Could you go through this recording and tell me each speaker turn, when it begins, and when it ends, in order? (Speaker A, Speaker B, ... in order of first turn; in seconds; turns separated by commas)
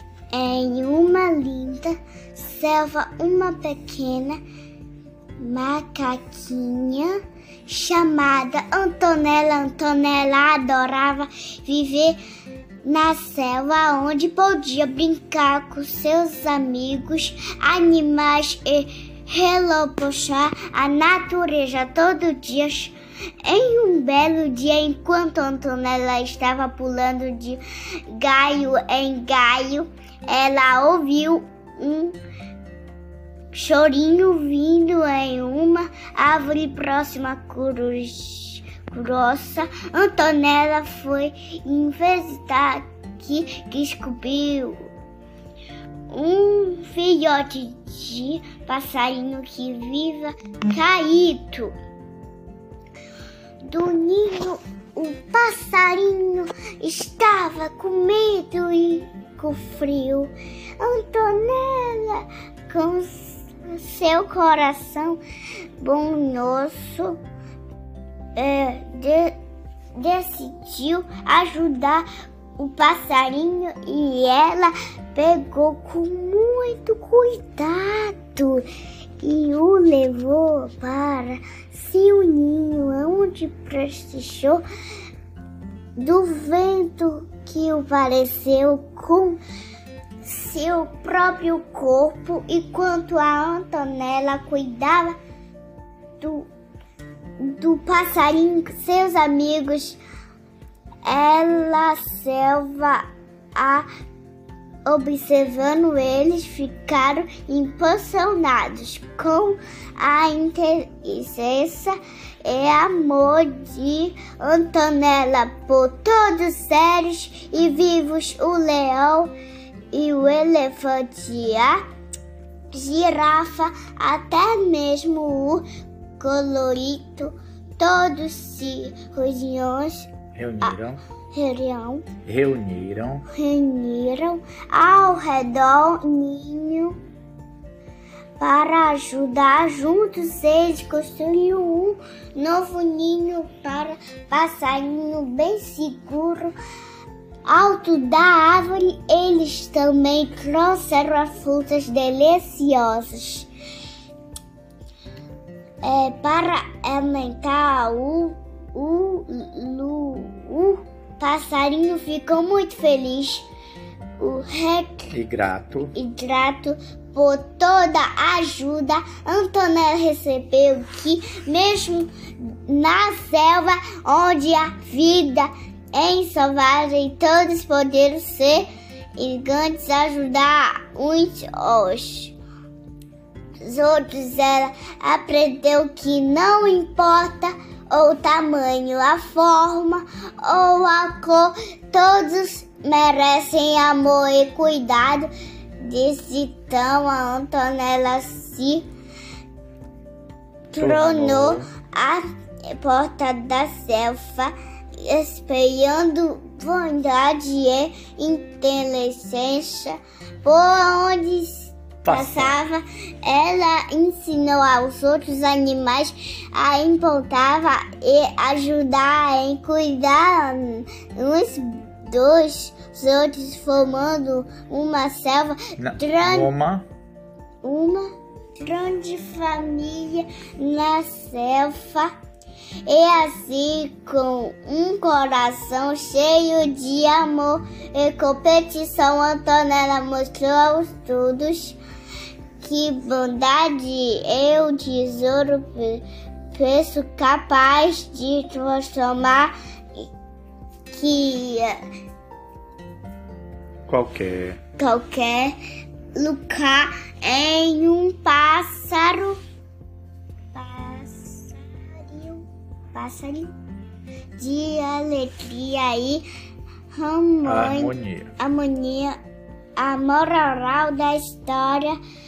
Speaker A: 0.3-4.4, Speaker A: 5.4-12.2, Speaker A: 12.8-32.2, Speaker A: 33.5-44.9, Speaker A: 46.1-51.8, Speaker A: 53.6-65.2, Speaker A: 65.8-67.2, Speaker A: 68.4-69.3, Speaker A: 70.0-72.1, Speaker A: 72.6-78.7, Speaker A: 79.2-84.6, Speaker A: 86.0-89.4, Speaker A: 90.2-95.2, Speaker A: 96.2-96.5, Speaker A: 97.4-100.0, Speaker A: 101.0-103.9, Speaker A: 104.9-119.3, Speaker A: 119.9-121.8, Speaker A: 122.7-125.7, Speaker A: 126.2-130.1, Speaker B: 130.3-131.0, Speaker A: 131.3-132.1, Speaker B: 132.2-133.3, Speaker A: 133.3-137.0, Speaker A: 138.4-146.5, Speaker A: 147.5-153.5, Speaker A: 155.8-163.5, Speaker A: 164.2-165.1, Speaker B: 165.1-165.9, Speaker A: 165.9-178.7, Speaker A: 179.2-182.3, Speaker A: 183.6-195.3, Speaker A: 195.8-198.9, Speaker A: 200.7-202.2, Speaker B: 200.8-201.7, Speaker A: 202.8-226.5, Speaker B: 212.0-212.6, Speaker B: 225.8-226.9, Speaker A: 227.6-232.1, Speaker A: 232.9-241.8, Speaker A: 242.6-249.5, Speaker A: 250.9-251.8, Speaker B: 253.9-254.6, Speaker A: 254.8-255.6, Speaker A: 256.1-259.4, Speaker A: 260.5-263.5, Speaker A: 264.4-266.2, Speaker A: 266.9-269.2, Speaker B: 267.4-268.3, Speaker A: 269.8-272.0